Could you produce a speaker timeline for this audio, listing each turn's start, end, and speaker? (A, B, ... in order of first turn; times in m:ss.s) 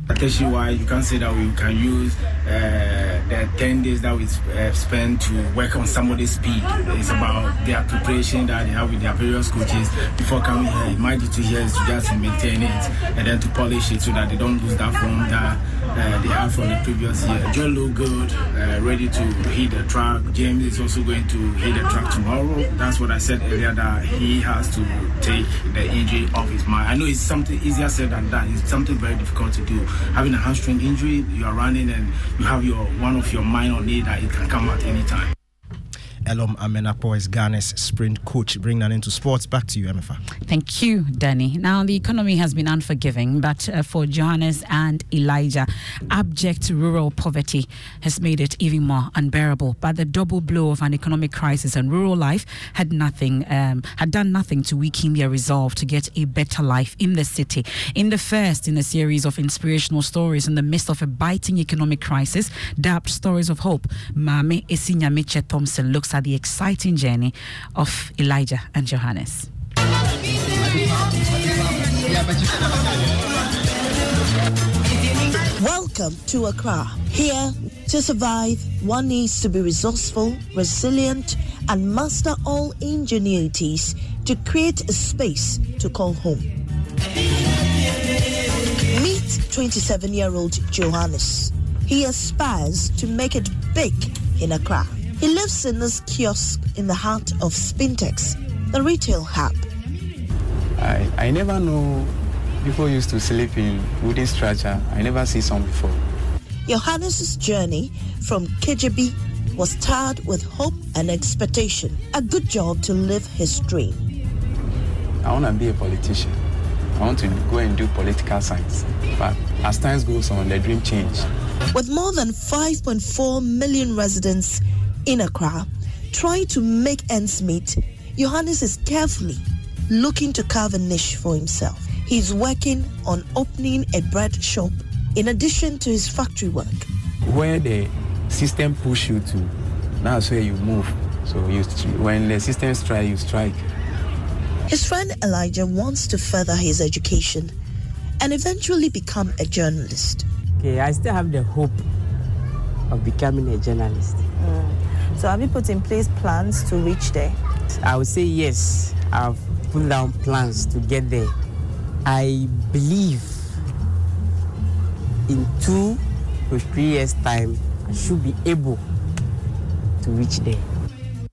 0:00.1-0:35.3 A
0:36.2-0:40.2 B
0:40.4-1:09.5 C
1:15.6-1:26.5 D
1:28.9-1:39.7 D
1:40.8-1:46.0 E
1:46.7-1:54.0 D
1:55.2-1:56.4 E
1:57.0-2:01.3 E
2:01.7-2:16.9 D
2:17.2-2:23.6 E
2:24.7-2:27.5 D
2:28.2-2:30.2 D
2:30.6-2:31.8 F
2:32.9-2:34.2 F
2:37.8-2:41.3 F
2:42.0-2:43.4 F
2:45.3-2:48.8 F
2:50.0-2:50.6 F